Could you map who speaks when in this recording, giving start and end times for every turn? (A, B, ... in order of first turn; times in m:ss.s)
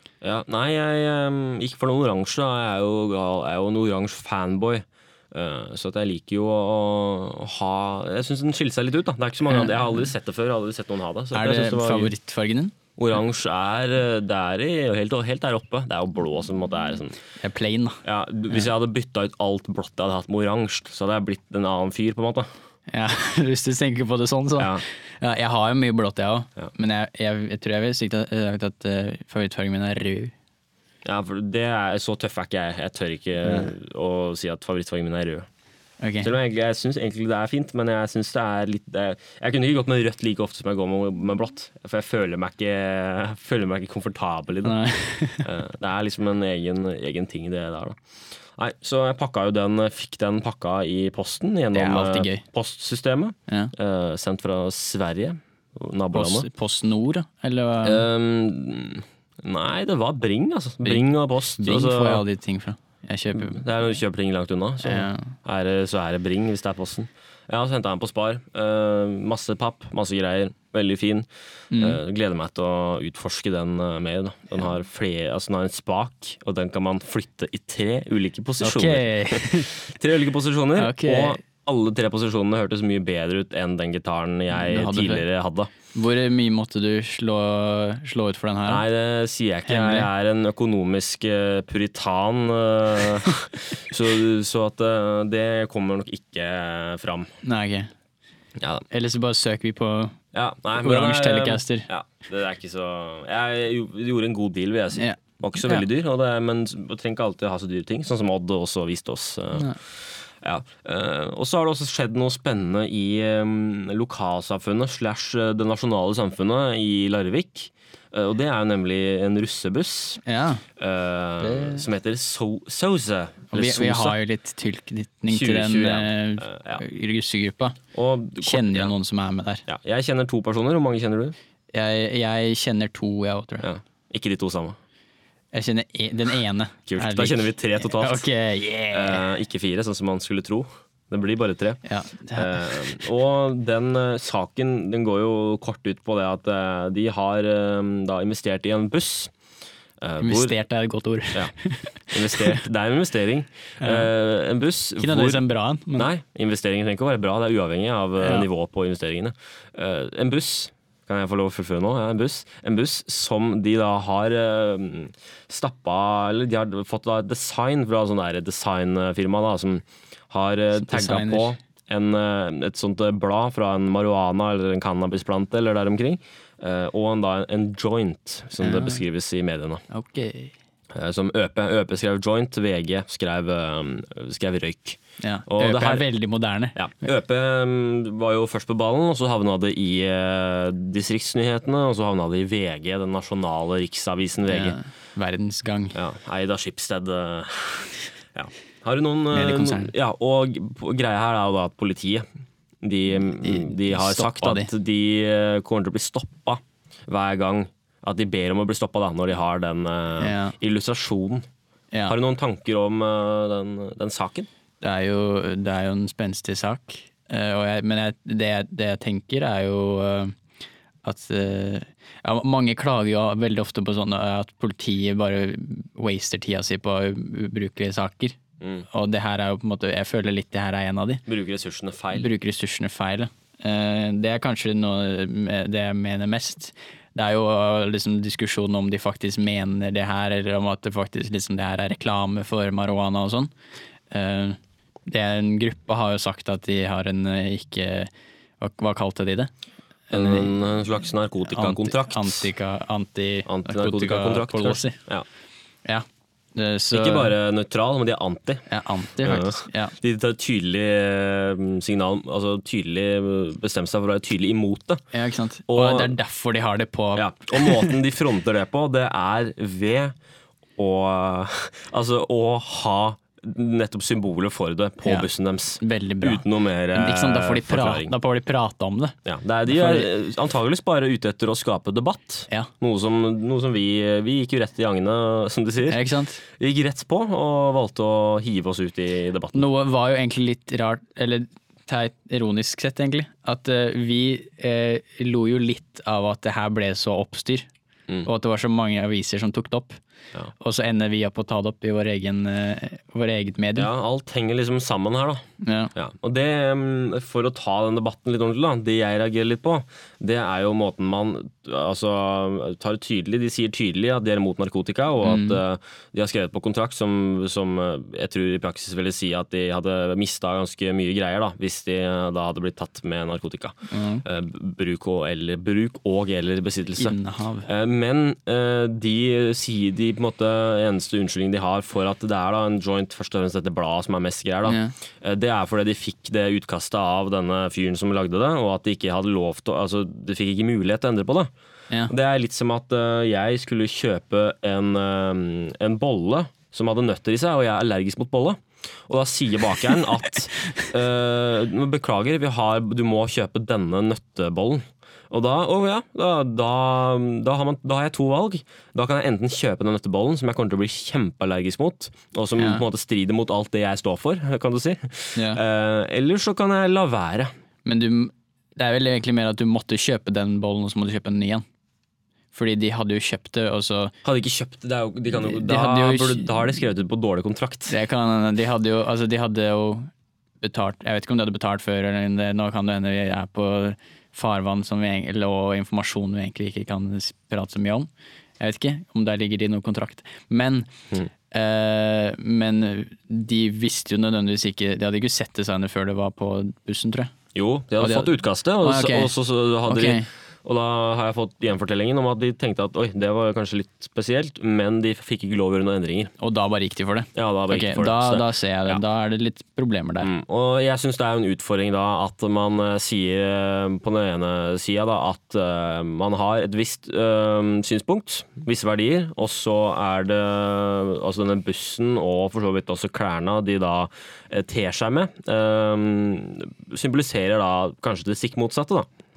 0:00.2-0:12.1 A
0:11.3-0:12.7 B
0:13.0-0:17.2 A
0:17.4-0:18.0 B
0:18.0-0:22.5 A
0:22.9-0:30.3 B
0:24.6-0:24.8 A
0:31.0-0:35.5 A
0:33.4-0:33.7 B
0:36.0-0:36.3 B
0:36.2-0:44.8 A
0:44.6-0:45.5 B
0:45.4-0:48.0 A
0:48.6-0:56.5 A
0:51.7-0:52.4 B
0:53.5-0:53.7 B
0:56.1-0:58.0 B
0:57.8-1:02.2 A
1:00.8-1:03.6 B
1:03.3-1:25.7 A
1:04.8-1:05.3 B
1:11.7-1:12.0 B
1:18.6-1:19.8 B
1:20.8-1:21.4 B
1:24.5-1:25.2 B
1:25.9-1:28.8 B
1:28.7-1:37.3 A
1:29.7-1:30.1 B
1:37.4-1:37.9 B
1:38.6-1:38.8 A
1:38.9-1:40.2 B
1:40.3-2:00.2 A
1:40.8-1:41.9 B
1:44.9-1:45.8 B
2:00.2-2:00.6 B
2:00.8-2:04.2 A
2:01.4-2:01.8 B
2:03.5-2:07.8 B
2:05.3-2:06.8 A
2:07.9-2:08.9 A
2:08.4-2:09.6 B
2:09.7-2:11.4 A
2:11.7-2:13.7 B
2:13.6-2:14.8 A
2:15.5-2:19.2 B
2:16.9-2:18.2 A
2:18.9-2:21.8 A
2:21.8-2:23.1 B
2:22.3-2:29.3 A
2:30.0-2:30.5 A
2:30.2-2:32.6 B
2:32.1-2:35.4 A
2:33.8-2:34.1 B
2:35.0-2:36.1 B
2:36.0-2:59.8 A
2:38.2-2:38.5 B
2:50.7-2:51.6 B
2:58.6-2:59.0 B
2:59.9-3:00.5 B
3:00.9-3:06.0 A
3:05.2-3:06.8 B
3:06.7-3:14.8 A
3:14.5-3:16.0 B
3:15.9-3:22.2 A
3:19.3-3:19.9 B
3:22.8-3:31.4 A
3:23.4-3:24.7 B
3:30.2-3:30.6 B
3:32.1-3:34.5 A
3:34.8-3:40.4 B
3:41.0-3:48.4 B
3:48.9-3:51.2 B
3:51.3-3:52.3 A
3:52.1-4:03.5 B
4:04.1-4:09.5 B
4:10.1-4:10.6 B
4:10.1-4:12.5 A
4:11.4-4:15.0 B
4:13.4-4:15.2 A
4:15.8-4:17.3 B
4:16.9-4:18.7 A
4:18.7-4:19.9 B
4:19.2-4:25.0 A
4:25.1-4:28.0 B
4:25.7-4:26.1 A
4:27.2-4:30.1 A
4:30.8-4:38.1 A
4:35.8-4:39.2 B
4:39.2-4:49.6 A
4:39.7-4:40.1 B
4:45.9-4:46.4 B
4:49.5-4:57.7 B
4:58.2-5:00.0 B
5:00.6-5:03.9 B
5:03.7-5:05.4 A
5:05.6-5:05.9 B
5:05.9-5:41.5 A
5:15.2-5:15.6 B
5:23.9-5:24.2 B
5:27.0-5:27.7 B
5:34.6-5:35.0 B
5:42.1-6:07.5 A
5:50.6-5:50.9 B
6:02.6-6:02.8 B
6:05.3-6:05.6 B
6:07.8-6:11.6 B
6:12.5-6:14.1 B
6:14.2-6:17.9 A
6:15.4-6:16.5 B
6:17.9-6:20.1 B
6:20.6-6:28.1 B
6:28.6-6:30.9 B
6:31.5-6:37.3 B
6:37.5-6:46.3 A
6:38.0-6:38.3 B
6:38.8-6:39.3 B
6:39.8-6:40.3 B
6:46.4-6:50.3 B
6:47.3-6:49.0 A
6:50.2-7:09.1 A